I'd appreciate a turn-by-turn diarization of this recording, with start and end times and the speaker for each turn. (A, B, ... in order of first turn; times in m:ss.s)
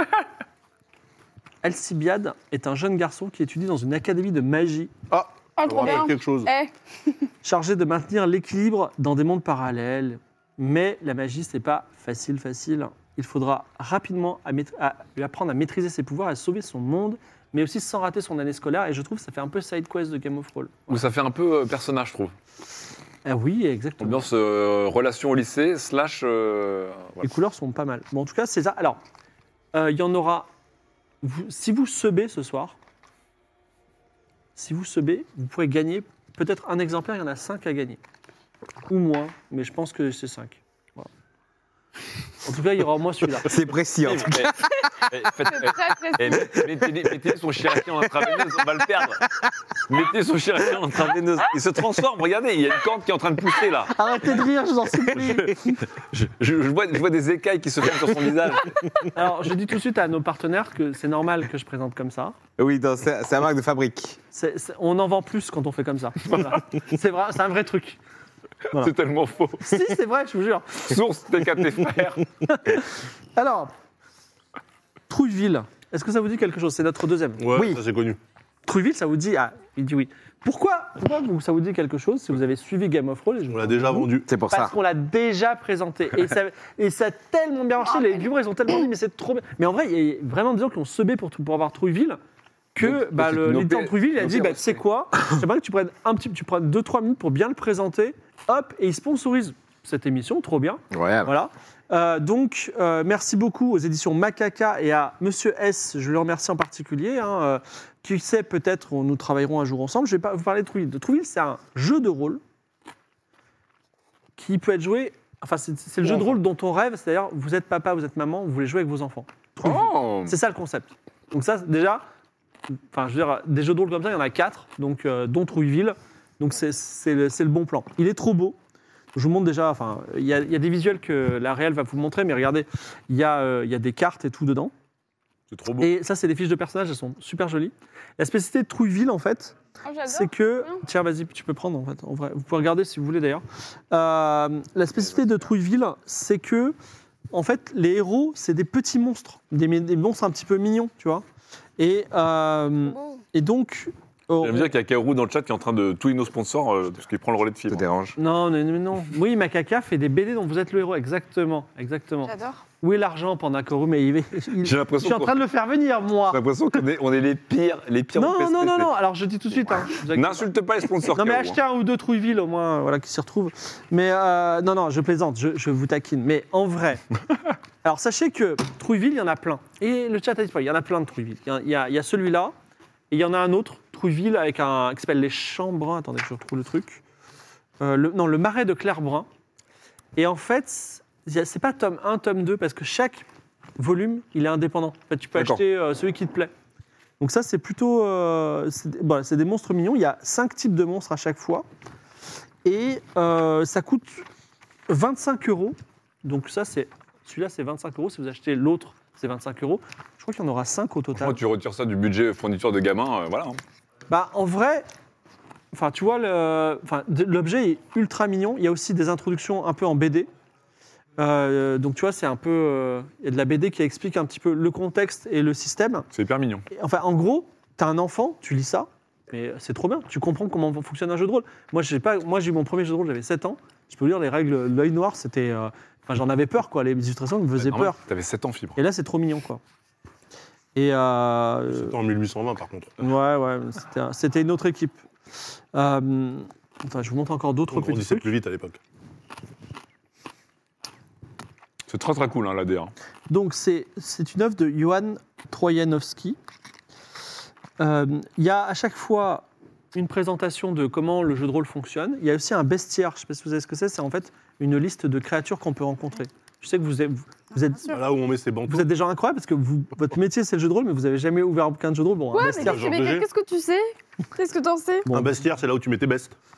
0:01.6-0:04.9 A
0:05.1-0:06.5 B
0:05.6-0:07.1 C
0:07.4-0:21.0 A
0:20.9-0:22.3 D
0:23.2-0:24.3 A
0:24.0-0:27.2 D
0:27.2-0:29.0 A
0:29.7-0:30.5 A
0:31.2-0:32.8 A
0:34.6-0:38.0 A
0:38.9-0:41.1 A
0:42.4-0:43.5 A
0:43.4-0:44.5 E
0:44.0-0:49.3 D
0:45.5-0:46.5 C
0:49.8-0:54.0 D
0:53.9-0:55.8 A
0:55.2-0:59.0 D
0:59.1-1:02.3 A
1:02.6-1:04.2 E
1:04.3-1:08.0 A
1:08.7-1:09.8 D
1:09.6-1:10.9 A
1:10.9-1:12.3 D
1:12.4-1:13.7 A
1:15.1-1:17.4 A
1:17.4-1:18.2 B
1:17.5-1:17.8 E
1:18.6-1:32.2 A
1:23.5-1:24.3 B
1:24.2-1:24.8 E
1:32.7-1:52.4 A
1:32.8-1:34.8 D
1:40.9-1:41.3 E
1:54.4-2:02.0 A
1:59.6-2:00.3 D
2:02.9-2:08.6 A
2:09.1-2:14.7 A
2:15.5-2:15.9 D
2:15.8-2:19.6 A
2:19.8-2:20.8 C
2:20.1-2:26.8 A
2:27.3-2:31.2 A
2:31.8-2:34.7 A
2:32.9-2:33.2 C
2:34.4-2:37.8 D
2:37.7-2:38.2 E
2:38.2-2:46.4 A
2:42.2-2:42.6 C
2:44.6-2:45.4 D
2:46.3-2:48.9 D
2:48.2-2:50.5 A
2:49.8-2:51.6 D
2:51.0-2:57.0 A
2:57.8-3:02.5 A
3:03.1-3:07.0 A
3:07.8-3:09.3 A
3:10.2-3:13.2 A
3:13.8-3:16.5 A
3:15.4-3:15.6 D
3:17.2-3:21.6 A
3:22.6-3:24.2 A
3:24.9-3:31.4 A
3:31.1-3:33.6 D
3:34.1-3:34.9 A
3:35.7-3:40.3 A
3:41.2-3:46.1 A
3:46.1-3:46.6 D
3:46.7-3:58.0 A
3:57.6-3:58.8 D
3:58.8-3:59.6 A
4:00.8-4:01.9 A
4:01.7-4:02.9 B
4:03.0-4:05.0 A
4:05.7-4:08.3 A
4:07.7-4:08.8 B
4:11.9-4:12.9 D
4:13.3-4:16.4 A
4:17.8-4:28.0 A
4:27.9-4:28.9 B
4:28.7-4:32.8 A
4:32.3-4:35.1 C
4:32.4-4:33.3 B
4:35.0-4:35.4 A
4:35.1-4:36.4 B